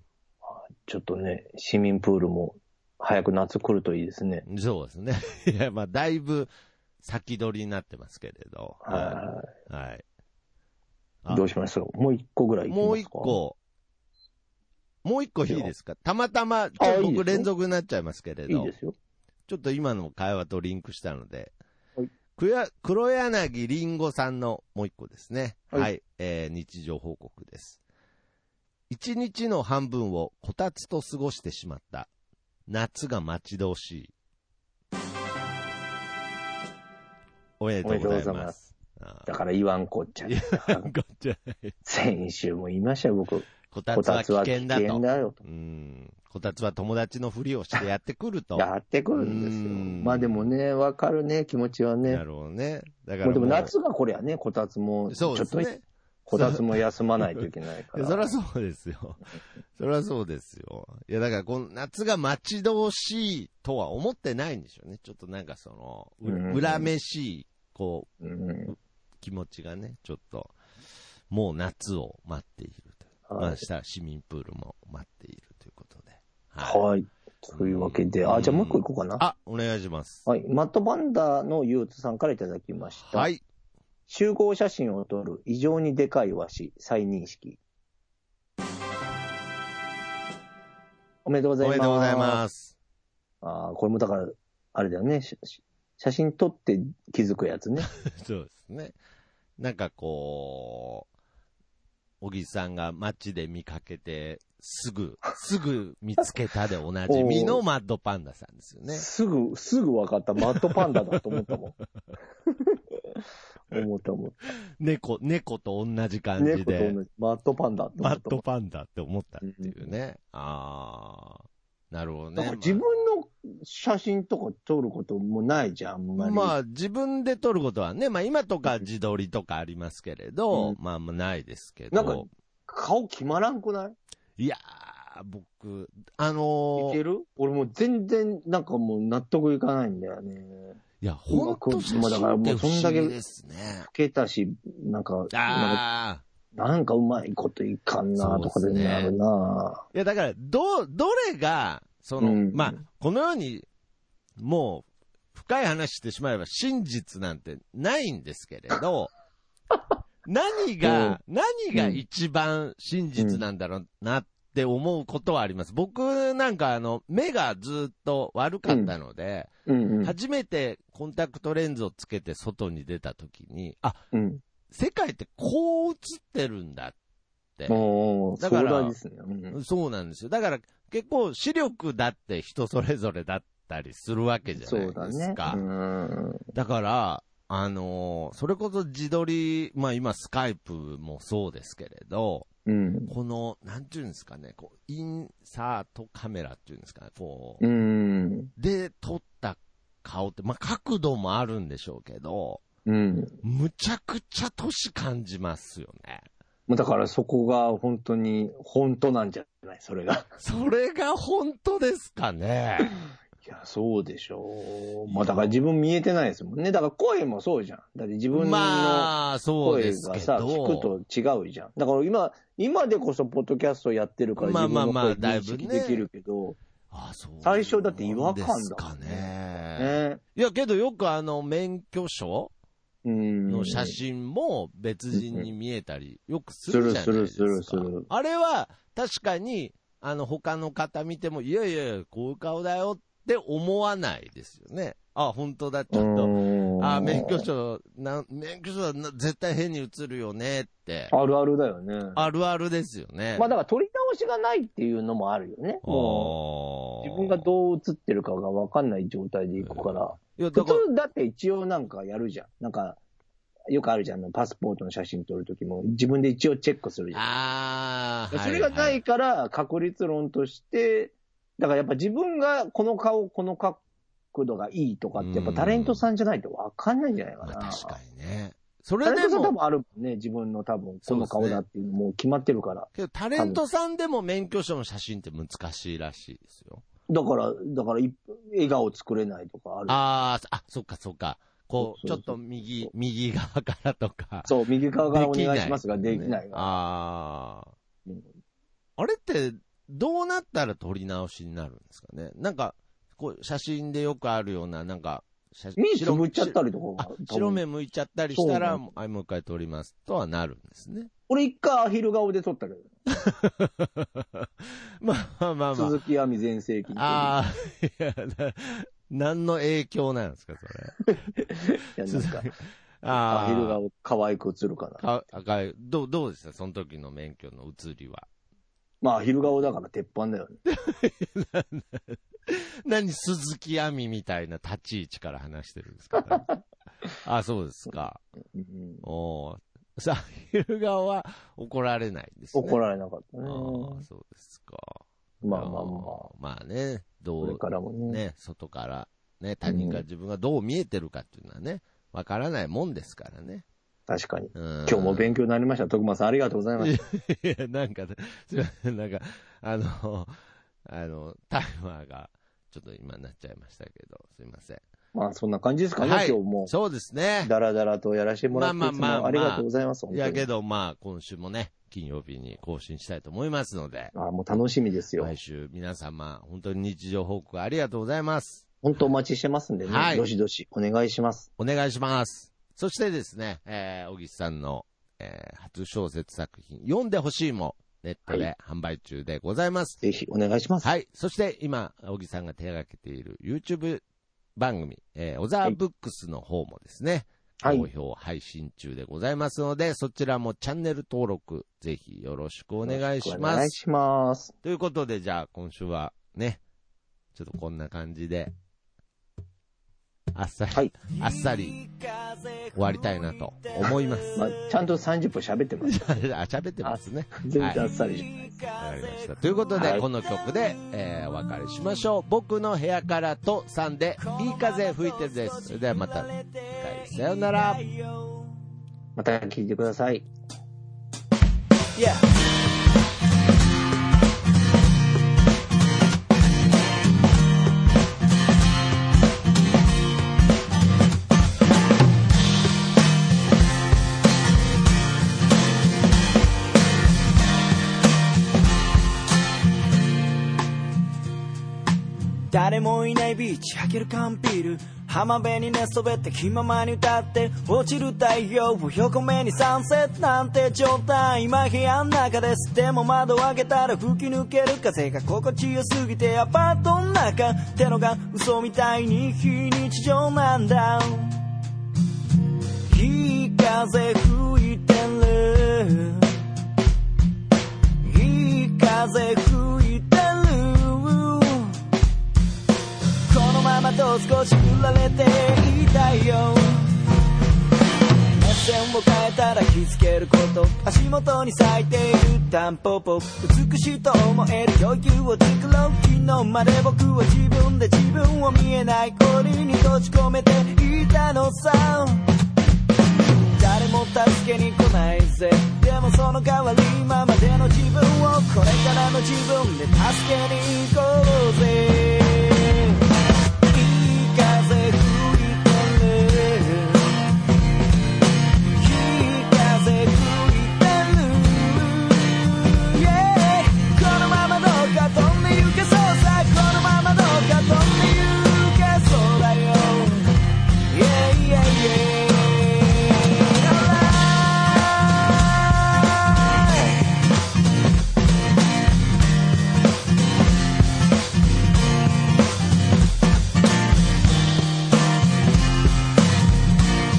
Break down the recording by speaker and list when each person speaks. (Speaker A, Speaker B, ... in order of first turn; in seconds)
Speaker A: 0.5-4.4, 8.8-9.5, 11.3-13.4, 16.8-17.5, 18.5-18.9, 37.8-38.6, 39.2-40.9, 41.9-45.4, 48.6-52.2, 53.2-55.7, 56.2-58.3, 66.2-66.9, 68.2-68.7, 73.3-73.7, 76.6-79.2, 80.2-83.3, 84.1-87.6, 91.2-92.4, 93.4-97.9, 107.1-107.6, 108.9-111.8, 112.5-112.8, 113.7-114.5, 116.4-118.4, 119.4-119.9, 122.4-126.5, 130.5-130.8, 131.9-133.9, 136.8-140.8, 141.3-143.2, 143.9-145.8, 146.5-149.8, 152.2-152.8, 160.8-161.2, 161.7-162.0, 163.2-163.4, 168.7-168.9, 169.7-170.1, 174.1-174.4, 177.7-179.6, 184.6-186.4, 192.7-193.1, 197.6-198.5, 202.9-203.4, 206.7-210.3, 213.4-226.6, 227.4-230.2, 233.1-234.0, 235.1-235.5, 236.7-238.1, 245.9-247.4, 251.1-252.2, 253.4-256.4, 257.0-263.0, 263.7-267.2, 268.3-273.8, 274.3-277.9, 279.0-283.6, 287.1-290.0, 291.8-292.9, 294.5-296.8, 305.8-307.6, 308.3-308.8, 311.3-312.9, 315.7-317.4, 321.1-322.5, 323.1-325.1, 329.0-330.6, 338.5-339.1, 342.6-344.0, 345.4-346.3, 347.4-348.2, 349.6-350.0, 354.1-357.0, 365.1-366.7, 367.4-370.5, 374.1-375.3, 378.8-381.5, 390.0-390.9, 397.6-397.9, 402.8-404.5, 414.4-416.0, 416.8-418.6, 419.7-420.1, 429.1-430.3
Speaker B: 4.5-6.5, 7.0-10.0, 12.7-13.6, 15.0-18.7, 19.5-21.5, 22.4-27.8, 28.9-32.1, 32.7-34.1, 37.6-39.3, 40.2-41.7, 43.7-50.5, 52.1-53.7, 55.1-59.2, 59.7-68.1, 69.2-70.5, 71.3-76.8, 77.5-80.2, 83.0-83.4, 91.6-92.7, 98.0-99.0, 99.6-101.1, 102.2-109.1, 110.5-111.5, 114.8-117.0, 118.0-122.8, 126.2-132.3, 134.4-137.0, 141.0-143.9, 145.3-146.2, 148.2-149.1, 149.9-153.7, 154.4-159.1, 160.2-169.5, 170.0-174.0, 174.7-176.9, 178.4-178.9, 179.5-185.6, 186.5-192.5, 193.1-197.6, 198.6-202.6, 203.4-206.2, 210.4-212.9, 215.1-215.6, 218.3-220.9, 224.4-226.1, 226.9-232.5, 233.5-251.1, 252.1-253.5, 255.8-257.5, 259.6-260.8, 267.1-269.0, 275.2-276.1, 277.4-279.6, 281.1-281.6, 282.9-286.8, 289.9-294.5, 295.1-297.7, 299.0-311.1, 313.2-316.0, 316.9-321.1, 322.0-323.8, 325.0-328.3, 330.6-336.5, 337.2-338.2, 339.0-342.8, 343.4-353.6, 354.5-355.4, 356.8-360.3, 360.9-364.8, 366.0-367.5, 368.5-374.1, 375.2-379.0, 379.9-380.2, 381.6-390.0, 390.8-394.0, 394.6-403.8, 404.6-406.6, 407.3-408.5, 410.3-411.8, 412.7-414.4, 415.8-417.8, 418.8-427.8
Speaker C: 411.1-414.6, 417.7-420.6, 424.2-428.6, 431.9-432.2, 452.5-471.5, 472.9-476.4, 478.0-481.8, 483.3-486.9, 488.4-502.3, 503.4-513.0, 513.7-517.2, 518.8-530.3, 530.9-537.0